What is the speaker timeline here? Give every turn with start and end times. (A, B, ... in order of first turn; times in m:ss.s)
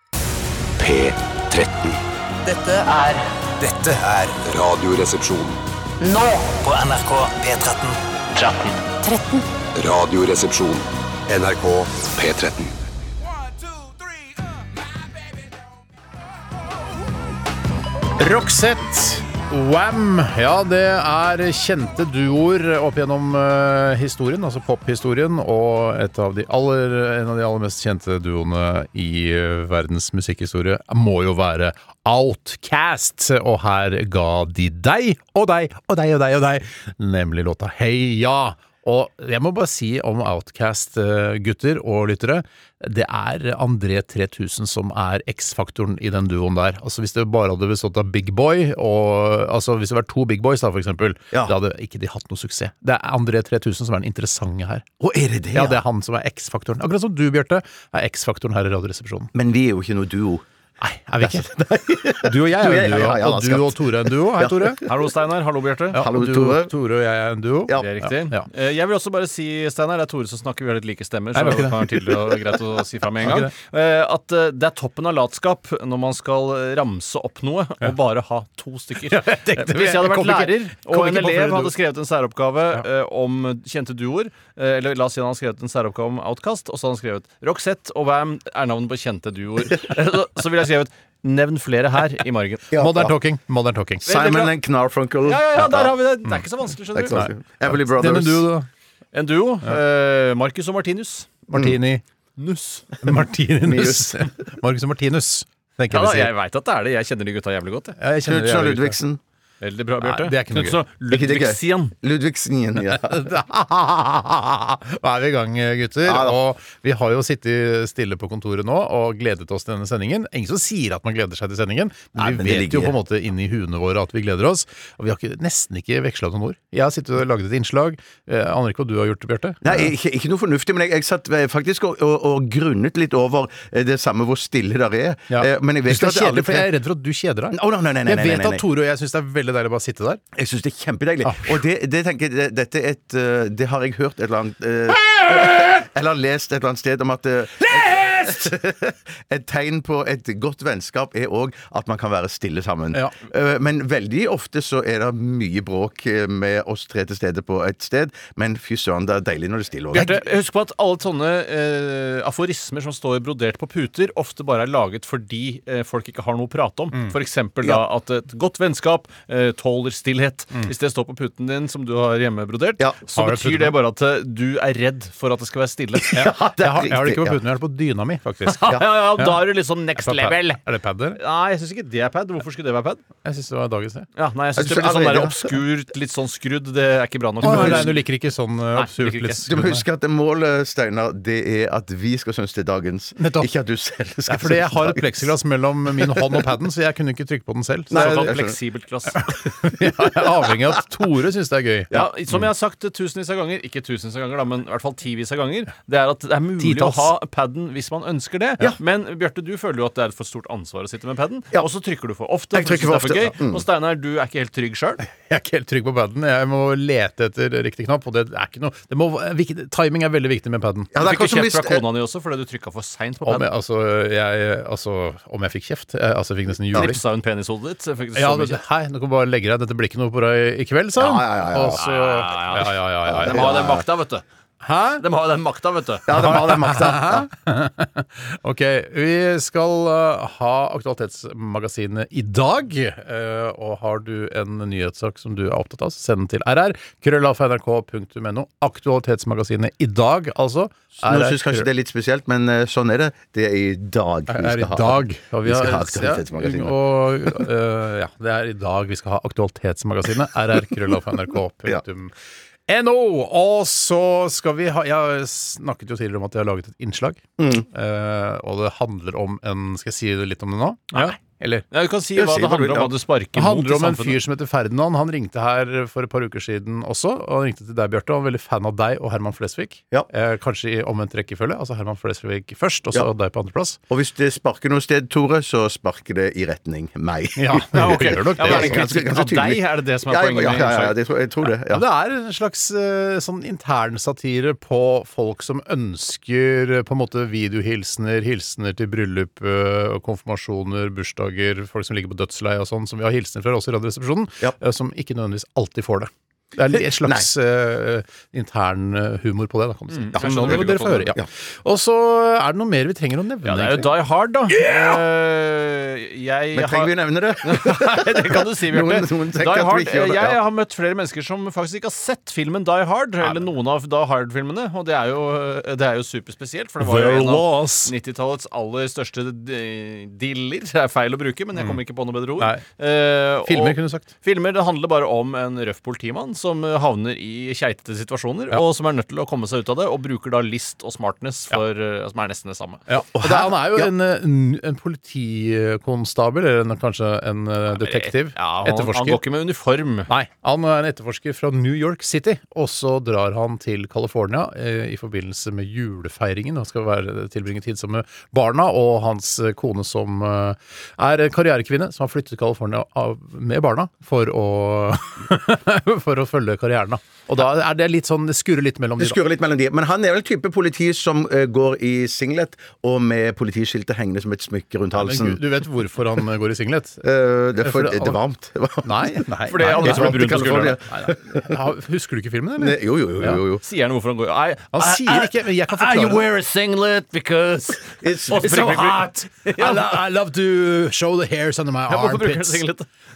0:00.8-0:02.0 A
0:02.4-0:04.3 B
0:04.3-0:05.6 A
0:06.0-0:09.4 B
0:09.7-0:12.7 A
0:18.2-0:54.8 C
0:55.0-0:55.8 D
0:55.5-0:59.3 C
0:59.3-1:00.4 D
1:00.8-1:01.5 C
1:01.2-1:04.9 D
1:02.2-1:04.8 C
1:04.8-1:06.0 E
1:05.9-1:08.5 C
1:05.9-1:06.7 D
1:07.7-1:32.7 E
1:11.3-1:12.2 C
1:13.2-1:13.5 C
1:19.0-1:21.7 C
1:32.7-1:33.2 D
1:32.7-1:34.0 C
1:34.0-1:36.0 D
1:34.0-1:34.6 E
1:35.2-1:37.2 E
1:36.9-1:38.5 D
1:37.1-1:38.7 C
1:39.1-1:41.4 E
1:41.5-1:42.0 C
1:42.4-1:43.0 E
1:43.0-1:46.3 C
1:43.6-1:44.3 D
1:45.9-1:48.0 E
1:48.0-1:49.0 C
1:48.2-1:49.2 D
1:49.6-1:51.9 E
1:50.0-1:50.8 C
1:51.1-1:53.3 D
1:52.8-2:09.9 C
1:56.0-1:56.4 D
2:02.1-2:03.0 D
2:09.6-2:16.7 D
2:15.3-2:20.2 C
2:17.5-2:18.6 D
2:20.3-2:40.2 D
2:21.2-2:21.5 C
2:25.1-2:25.6 C
2:27.6-2:28.5 C
2:39.9-2:56.1 E
2:53.1-2:53.8 C
2:56.0-2:57.4 D
2:56.1-2:59.4 C
2:58.4-3:00.6 E
3:00.0-3:01.2 C
3:01.2-3:03.0 E
3:03.2-3:04.1 C
3:04.2-3:08.0 E
3:04.6-3:05.5 D
3:07.4-3:07.9 D
3:07.4-3:09.8 C
3:08.8-3:09.4 E
3:09.5-3:15.3 D
3:13.2-3:13.5 C
3:14.2-3:18.4 C
3:15.9-3:16.4 D
3:17.9-3:18.5 D
3:17.9-3:19.4 E
3:19.1-3:22.4 C
3:21.9-3:35.0 E
3:26.6-3:27.1 C
3:32.5-3:33.6 D
3:35.0-3:40.9 C
3:40.9-3:41.8 D
3:41.0-3:43.5 E
3:43.2-3:47.0 C
3:46.7-3:48.6 E
3:48.2-3:53.5 C
3:51.0-3:51.8 D
3:51.8-3:54.2 E
3:53.1-3:53.8 D
3:54.6-3:55.0 C
3:55.0-3:56.1 E
3:56.1-3:57.3 D
3:56.1-4:11.7 C
4:11.0-4:17.4 D
4:14.3-4:22.1 C
4:22.7-4:31.6 C
4:27.4-4:27.6 D
4:31.7-4:34.2 E
4:32.2-4:32.9 D
4:33.4-4:43.8 C
4:43.9-4:51.8 D
4:47.4-4:48.9 C
4:47.8-4:51.0 E
4:51.7-5:13.9 C
5:06.7-5:07.3 D
5:09.9-5:11.2 E
5:10.1-5:11.3 D
5:13.4-5:42.8 E
5:16.5-5:20.4 D
5:26.8-5:27.9 C
5:33.5-5:34.1 C
5:42.9-5:49.2 C
5:43.1-5:43.9 D
5:47.7-5:50.1 E
5:50.1-6:09.2 C
6:09.0-6:15.4 D
6:14.9-6:17.0 C
6:17.0-6:21.5 D
6:17.6-6:18.2 C
6:18.8-6:23.4 C
6:19.5-6:20.8 E
6:22.6-6:23.6 D
6:23.6-6:30.0 E
6:24.7-6:26.2 C
6:28.0-6:29.0 D
6:28.4-6:32.6 C
6:31.9-6:32.8 E